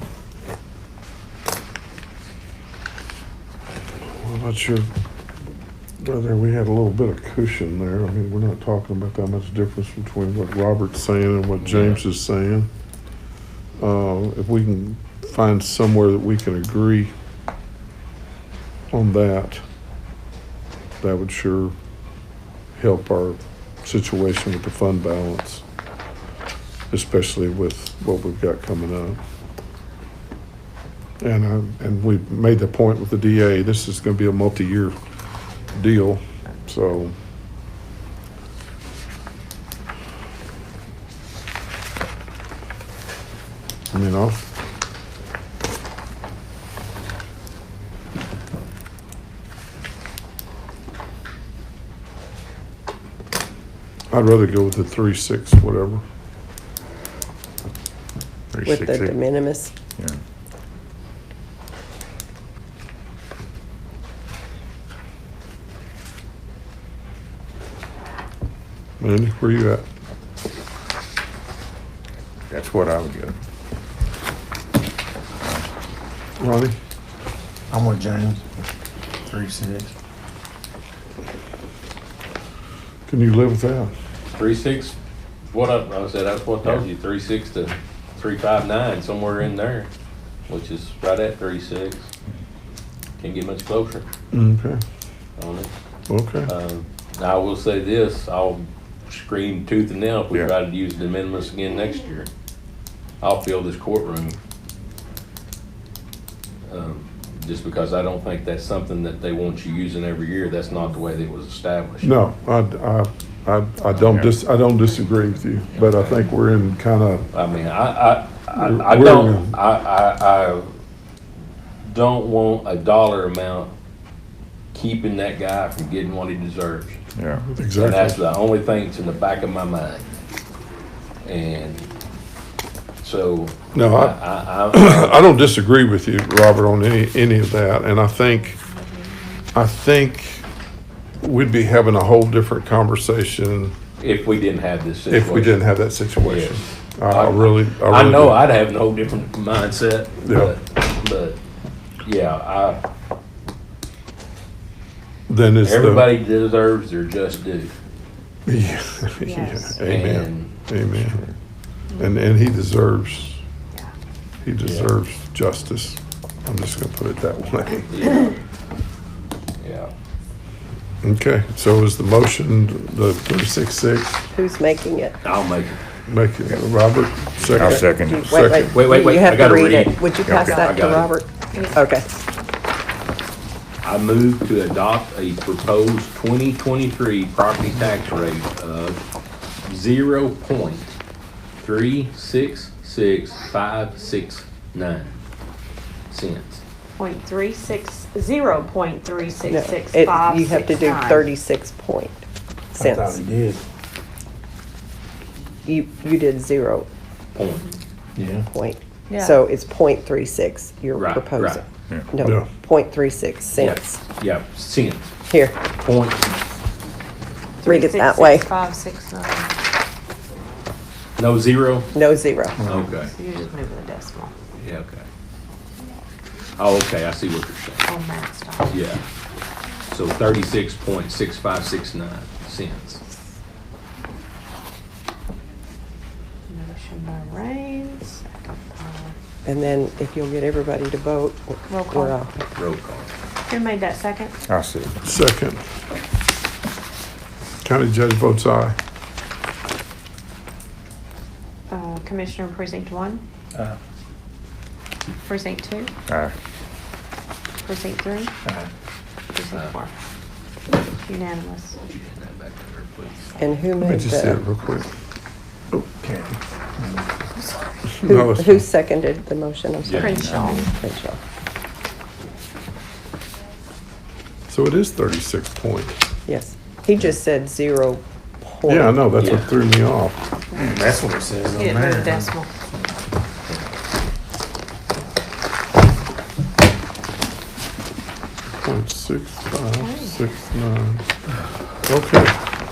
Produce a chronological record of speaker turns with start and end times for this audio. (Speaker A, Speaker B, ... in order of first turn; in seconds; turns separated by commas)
Speaker A: 4.2-4.9, Speaker A: 6.0-12.7, Speaker B: 11.6-12.0, Speaker A: 13.8-17.1, Speaker A: 18.9-19.6, Speaker A: 21.0-21.7, Speaker A: 22.8-25.6, Speaker A: 26.9-29.2, Speaker A: 31.2-35.0, Speaker A: 35.8-37.1, Speaker A: 43.9-44.4, Speaker A: 54.1-56.0, Speaker C: 58.5-59.2, Speaker D: 58.6-59.7, Speaker A: 69.0-69.8, Speaker C: 72.5-73.4, Speaker C: 75.4-75.7, Speaker A: 76.4-76.8, Speaker E: 77.7-78.4, Speaker E: 79.3-79.9, Speaker A: 83.1-83.9, Speaker B: 84.3-85.0, Speaker B: 85.5-89.9, Speaker B: 90.5-92.1, Speaker B: 93.2-94.1, Speaker A: 94.3-94.8, Speaker B: 95.4-95.7, Speaker A: 96.1-96.5, Speaker B: 96.5-102.3, Speaker B: 103.2-104.4, Speaker B: 106.7-112.2, Speaker A: 112.0-117.3, Speaker C: 113.9-114.3, Speaker B: 115.7-116.3, Speaker B: 117.3-120.7, Speaker A: 118.5-119.5, Speaker B: 121.8-123.7, Speaker B: 124.7-127.0, Speaker C: 127.2-127.5, Speaker A: 127.5-128.2, Speaker B: 127.8-130.1, Speaker B: 131.2-131.9, Speaker B: 133.0-135.3, Speaker A: 133.7-138.6, Speaker A: 139.5-140.5, Speaker A: 141.2-143.8, Speaker B: 144.0-145.7, Speaker A: 145.1-148.4, Speaker B: 146.2-151.4, Speaker A: 150.2-150.5, Speaker B: 152.0-152.8, Speaker A: 155.3-156.1, Speaker B: 155.6-157.7, Speaker A: 158.5-161.3, Speaker F: 159.2-159.8, Speaker B: 159.8-160.5, Speaker A: 162.0-163.4, Speaker A: 164.4-168.1, Speaker B: 164.6-164.9, Speaker B: 167.9-168.4, Speaker B: 169.6-169.9, Speaker A: 171.0-174.2, Speaker D: 174.3-175.2, Speaker B: 175.2-175.8, Speaker A: 176.1-178.8, Speaker C: 177.5-178.3, Speaker D: 177.6-182.1, Speaker B: 178.7-181.1, Speaker C: 180.3-180.7, Speaker F: 181.5-181.8, Speaker B: 183.8-189.0, Speaker B: 189.7-190.9, Speaker B: 191.6-195.2, Speaker B: 196.1-196.6, Speaker F: 197.0-201.3, Speaker D: 199.5-202.2, Speaker D: 202.8-203.2, Speaker E: 202.8-203.6, Speaker D: 205.7-206.9, Speaker B: 207.3-207.7, Speaker E: 208.2-208.5, Speaker D: 208.5-214.0, Speaker F: 209.1-209.4, Speaker B: 210.9-211.6, Speaker B: 213.6-215.1, Speaker D: 215.3-215.6, Speaker B: 215.8-216.3, Speaker F: 217.6-219.6, Speaker D: 217.6-218.5, Speaker B: 221.2-221.9, Speaker D: 221.9-222.6, Speaker E: 222.6-222.9, Speaker B: 222.7-223.1, Speaker F: 222.7-224.3, Speaker B: 224.6-225.1, Speaker B: 226.6-227.9, Speaker F: 227.9-228.8, Speaker B: 228.7-229.0, Speaker B: 229.9-233.0, Speaker F: 236.5-239.1, Speaker D: 239.4-242.4, Speaker F: 241.7-242.2, Speaker B: 242.6-243.1, Speaker F: 243.5-244.3, Speaker C: 244.5-245.0, Speaker A: 245.0-245.6, Speaker A: 247.6-248.8, Speaker F: 251.7-253.2, Speaker F: 255.2-255.9, Speaker C: 256.1-256.4, Speaker F: 257.6-258.3, Speaker E: 258.4-258.7, Speaker F: 259.3-259.9, Speaker B: 259.5-259.8, Speaker F: 261.0-261.9, Speaker B: 261.9-263.4, Speaker D: 263.4-264.4, Speaker A: 263.8-264.9, Speaker E: 266.0-267.1, Speaker A: 268.0-268.7, Speaker D: 268.0-271.2, Speaker B: 269.8-270.2, Speaker F: 270.0-270.6, Speaker C: 270.1-270.6, Speaker A: 274.5-276.0, Speaker D: 276.3-279.1, Speaker A: 278.7-280.2, Speaker B: 279.2-279.5, Speaker E: 280.6-282.3, Speaker F: 281.6-282.5, Speaker A: 288.6-291.0, Speaker F: 289.8-290.2, Speaker A: 291.9-292.3